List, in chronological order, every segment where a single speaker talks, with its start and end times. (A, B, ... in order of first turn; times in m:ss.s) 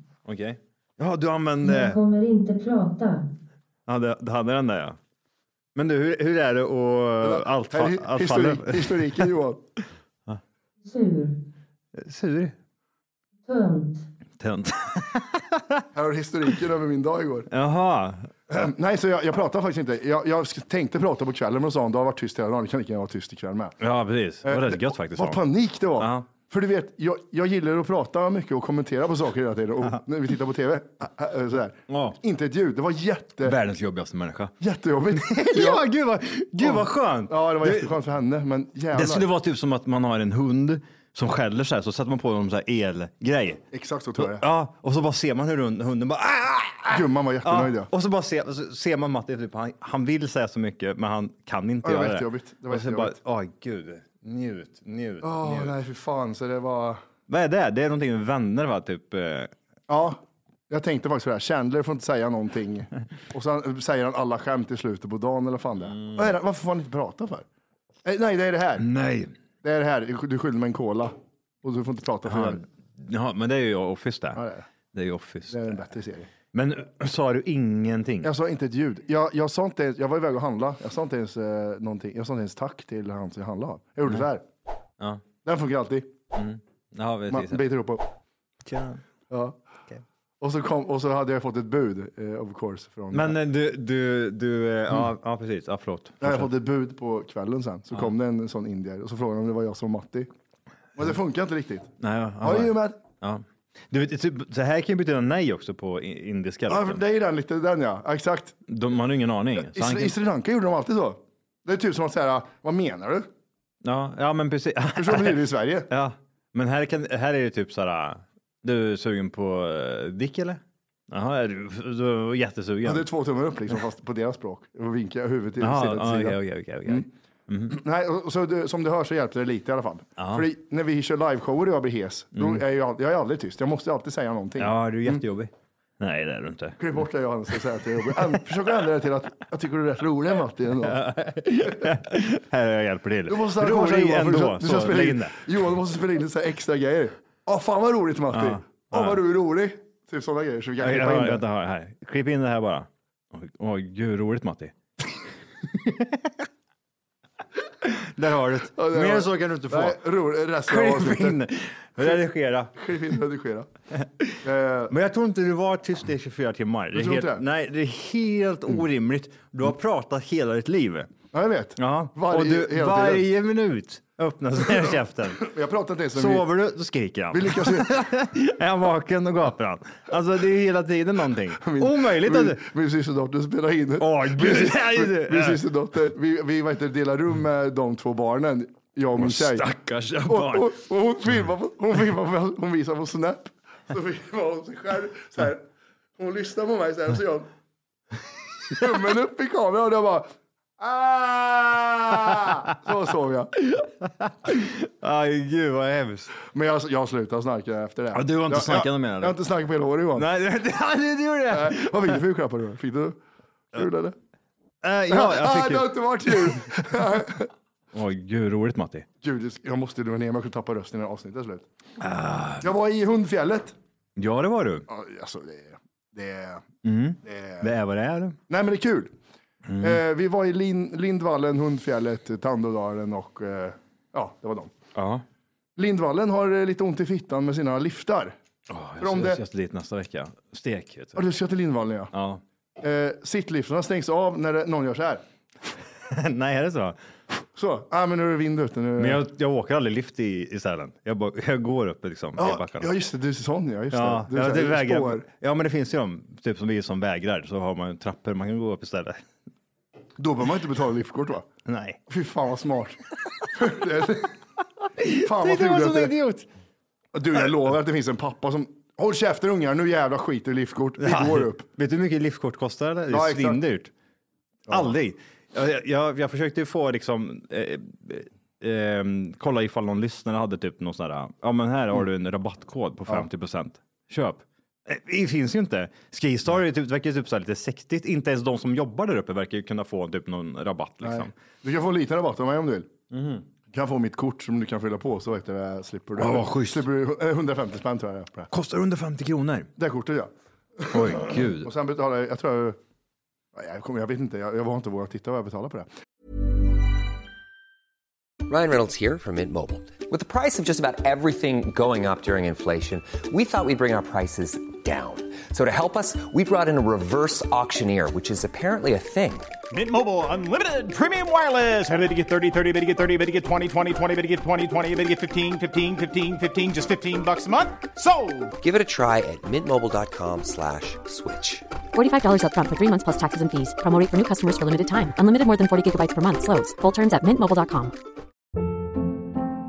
0:00.2-0:02.0 A
0:01.6-0:03.2 B
0:03.9-0:05.0 A
0:05.7-0:09.3 A
0:07.2-0:09.6 C
0:10.8-0:11.3 B
0:11.9-0:12.5 A
0:13.4-0:14.0 B
0:14.4-0:15.8 A
0:15.9-0:17.5 C
0:17.5-0:18.6 A
0:18.5-0:23.7 C
0:23.8-0:25.4 A
0:24.4-0:33.6 C
0:26.0-0:26.3 A
0:31.9-0:32.2 A
0:33.4-0:34.5 A
0:34.6-0:35.8 C
0:35.1-0:37.9 A
0:36.6-0:39.3 C
0:38.9-0:43.6 A
0:43.7-0:44.4 C
0:44.2-0:55.7 A
0:46.9-0:47.9 C
0:51.8-0:53.2 C
0:55.2-0:57.0 C
0:57.3-0:59.5 A
0:59.9-1:00.2 C
1:00.7-1:07.4 C
1:05.9-1:06.3 A
1:08.0-1:08.9 C
1:08.8-1:09.3 A
1:09.6-1:11.1 C
1:11.6-1:12.6 C
1:12.2-1:14.4 A
1:14.3-1:14.6 C
1:14.9-1:15.8 A
1:15.5-1:16.3 C
1:16.5-1:18.3 A
1:18.2-1:24.4 C
1:25.4-1:26.1 C
1:26.3-1:27.6 A
1:27.3-1:28.0 C
1:28.6-1:29.0 A
1:29.3-1:29.6 C
1:30.4-1:33.4 C
1:33.1-1:36.5 A
1:36.2-1:40.3 C
1:41.0-1:41.9 C
1:42.0-1:47.0 A
1:42.4-1:43.0 C
1:46.7-1:48.6 C
1:48.7-1:50.2 A
1:49.6-1:53.3 C
1:53.8-2:03.1 A
1:55.0-1:55.9 C
2:02.8-2:07.1 C
2:05.6-2:07.8 A
2:07.7-2:15.2 C
2:10.2-2:10.5 A
2:12.4-2:12.6 A
2:14.6-2:16.8 A
2:16.8-2:21.0 C
2:18.0-2:18.4 A
2:20.8-2:25.4 A
2:23.3-2:31.4 C
2:28.3-2:29.2 A
2:30.8-2:34.7 A
2:35.6-2:36.4 A
2:37.8-2:40.0 A
2:38.7-2:41.4 C
2:40.6-2:42.8 A
2:42.8-2:43.7 C
2:43.9-2:44.4 A
2:44.4-2:44.9 C
2:44.9-2:51.1 A
2:46.9-2:47.4 C
2:51.3-2:53.2 C
2:51.8-2:55.5 A
2:55.4-2:56.5 C
2:56.1-3:02.6 A
2:57.3-2:58.0 C
3:01.6-3:09.7 C
3:04.0-3:05.6 A
3:09.2-3:10.7 A
3:10.2-3:15.6 C
3:16.2-3:17.5 C
3:18.7-3:23.5 C
3:23.6-3:26.3 A
3:26.5-3:30.3 C
3:28.1-3:29.4 A
3:30.1-3:32.2 A
3:31.5-3:33.2 C
3:33.7-3:34.1 C
3:34.8-3:37.0 A
3:35.1-3:37.5 C
3:37.9-3:39.0 A
3:39.2-3:41.7 C
3:42.0-3:42.7 A
3:42.6-3:43.7 C
3:44.2-3:44.8 A
3:44.9-3:46.6 C
3:46.8-3:48.4 A
3:47.2-3:47.7 C
3:48.5-3:49.1 C
3:49.7-3:50.0 A
3:49.8-3:54.7 C
3:54.9-3:55.2 A
3:55.8-3:58.3 C
3:58.7-4:01.2 A
3:59.0-3:59.4 C
4:01.1-4:02.1 C
4:02.1-4:02.4 A
4:02.8-4:05.2 C
4:06.0-4:07.0 A
4:07.6-4:09.2 C
4:09.0-4:12.9 A
4:12.4-4:15.2 C
4:13.9-4:19.2 A
4:20.2-4:21.4 C
4:21.6-4:22.0 A
4:22.1-4:23.0 C
4:23.5-4:24.3 C
4:25.0-4:26.5 A
4:25.1-4:26.1 C
4:27.1-4:31.7 C
4:31.0-4:33.9 A
4:33.1-4:33.6 C
4:34.7-4:34.9 C
4:34.7-4:51.3 A
4:51.0-4:52.9 C
4:53.1-4:53.4 A
4:53.7-4:58.5 C
4:56.2-4:56.8 A
4:58.5-4:59.7 A
4:59.8-5:02.8 C
5:00.9-5:01.7 A
5:03.5-5:05.9 C
5:08.5-5:19.5 D
5:19.7-5:28.5 E
5:28.6-5:31.6 D
5:31.9-5:37.9 F